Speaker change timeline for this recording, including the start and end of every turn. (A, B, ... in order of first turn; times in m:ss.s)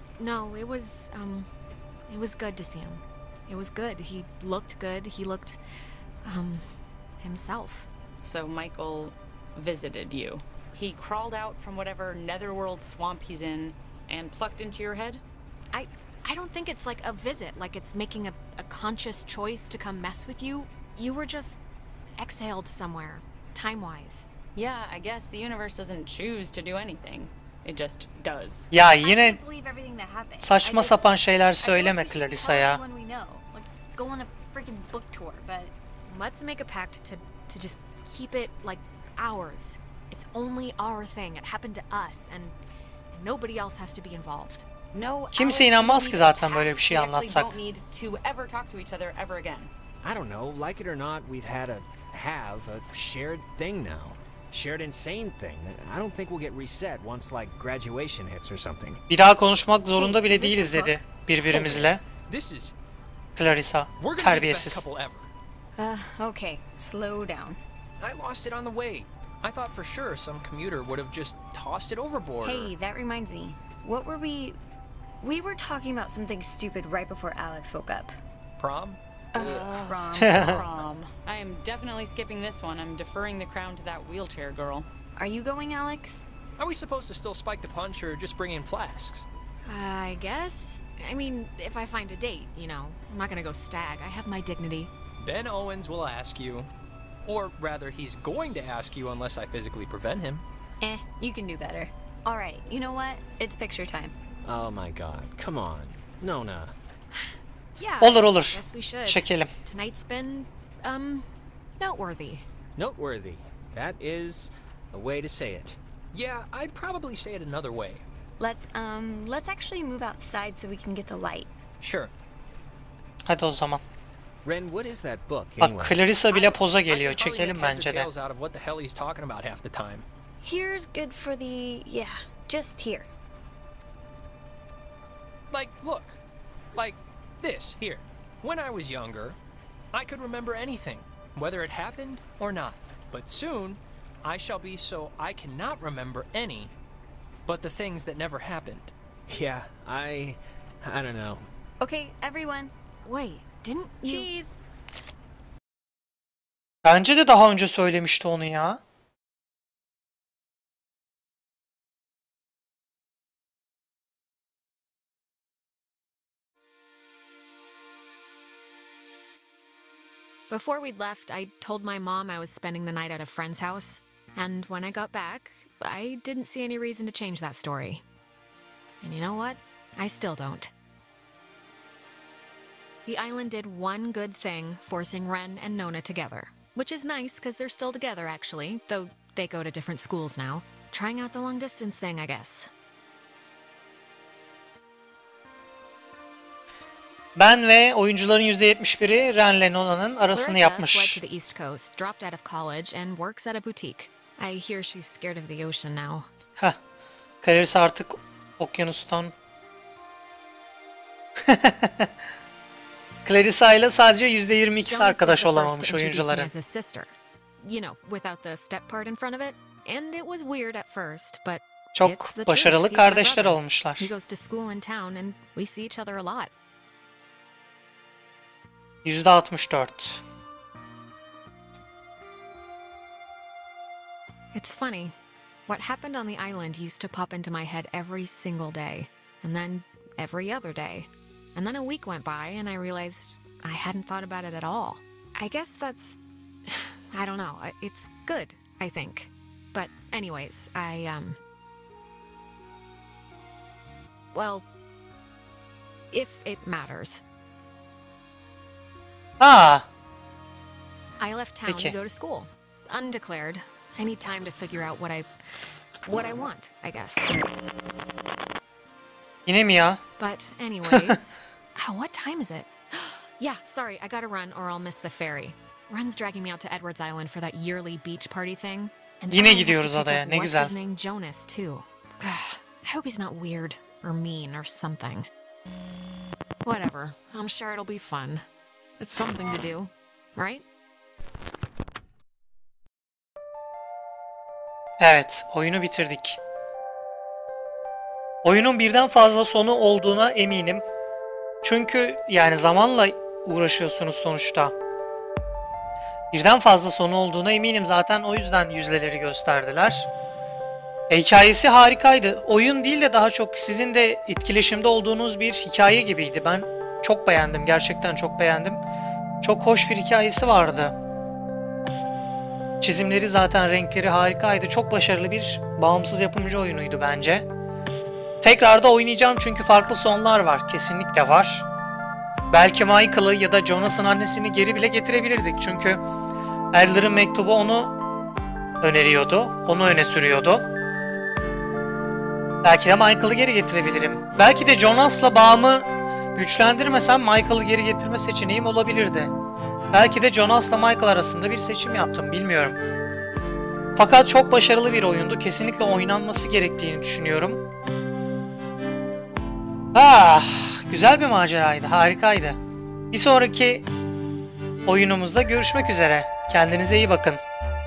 0:00.2-0:01.5 A
0:02.1-0:05.6 A
0:06.2-0:06.7 A
0:07.2-0:07.9 A
0:08.2-0:15.2 B
0:15.7-0:21.6 A
0:22.2-0:24.3 A
0:24.5-0:28.7 B
0:28.7-0:29.4 C
0:28.8-0:31.0 D
0:30.4-0:32.8 C
0:31.6-0:35.7 D
0:36.1-0:42.6 A
0:43.1-0:44.7 A
0:44.9-0:49.7 B
0:45.3-0:47.6 C
0:50.0-0:59.0 E
0:59.1-1:02.0 C
1:00.0-1:00.9 D
1:00.0-1:00.8 A
1:01.5-1:02.7 F
1:03.4-1:04.8 C
1:04.0-1:05.3 F
1:05.8-1:07.6 D
1:08.0-1:12.7 F
1:12.4-1:14.6 D
1:15.2-1:18.2 D
1:18.6-1:19.0 F
1:19.3-1:20.8 D
1:19.7-1:24.9 B
1:20.2-1:20.6 C
1:25.2-1:26.3 D
1:26.6-1:29.2 F
1:29.6-1:34.9 A
1:35.2-1:36.7 F
1:37.2-1:40.4 F
1:40.8-1:44.1 D
1:44.4-1:46.7 E
1:47.1-1:52.4 A
1:48.0-1:49.5 C
1:52.8-1:55.8 E
1:56.1-1:58.0 F
1:58.4-2:01.5 D
2:01.8-2:02.1 F
2:03.3-2:03.8 C
2:04.4-2:06.0 E
2:05.6-2:08.1 C
2:06.8-2:10.0 F
2:10.4-2:13.1 D
2:15.5-2:16.2 F
2:16.8-2:19.4 F
2:19.9-2:26.7 F
2:27.5-2:28.9 F
2:29.3-2:31.5 E
2:31.8-2:32.7 D
2:33.0-2:34.3 A
2:34.0-2:34.6 D
2:36.8-2:38.8 C
2:50.5-2:58.0 A
2:59.0-3:00.7 A
3:03.0-3:12.7 A
3:17.4-3:21.2 C
3:20.3-3:26.3 A
3:27.4-3:29.3 C
3:31.4-3:32.1 C
3:33.2-3:36.5 C
3:34.8-3:46.5 A
3:41.9-3:44.1 C
3:49.0-3:50.2 C
3:54.5-3:55.1 A
3:55.7-4:11.4 A
4:14.3-4:14.7 A
4:16.1-4:17.2 A
4:19.4-4:19.9 C
4:21.2-4:25.3 A
4:21.7-4:22.0 C
4:26.0-4:27.4 A
4:29.5-4:30.0 C
4:30.2-4:45.3 A
4:39.3-4:40.7 C
4:46.6-4:48.4 A
4:49.0-4:50.6 A
4:55.0-4:56.4 C
4:58.4-5:00.8 C
5:01.6-5:04.7 C
5:06.3-5:10.1 C
5:11.1-5:18.8 C
5:19.4-5:20.9 C
5:22.8-5:27.4 C
5:28.4-5:31.6 C
5:32.5-5:36.0 C
5:36.7-5:37.9 C
5:38.8-5:40.6 C
5:42.6-5:49.3 C
5:49.9-5:52.8 C
5:54.0-5:57.6 C
5:59.9-6:02.6 C
6:03.1-6:03.8 C
6:04.9-6:07.4 C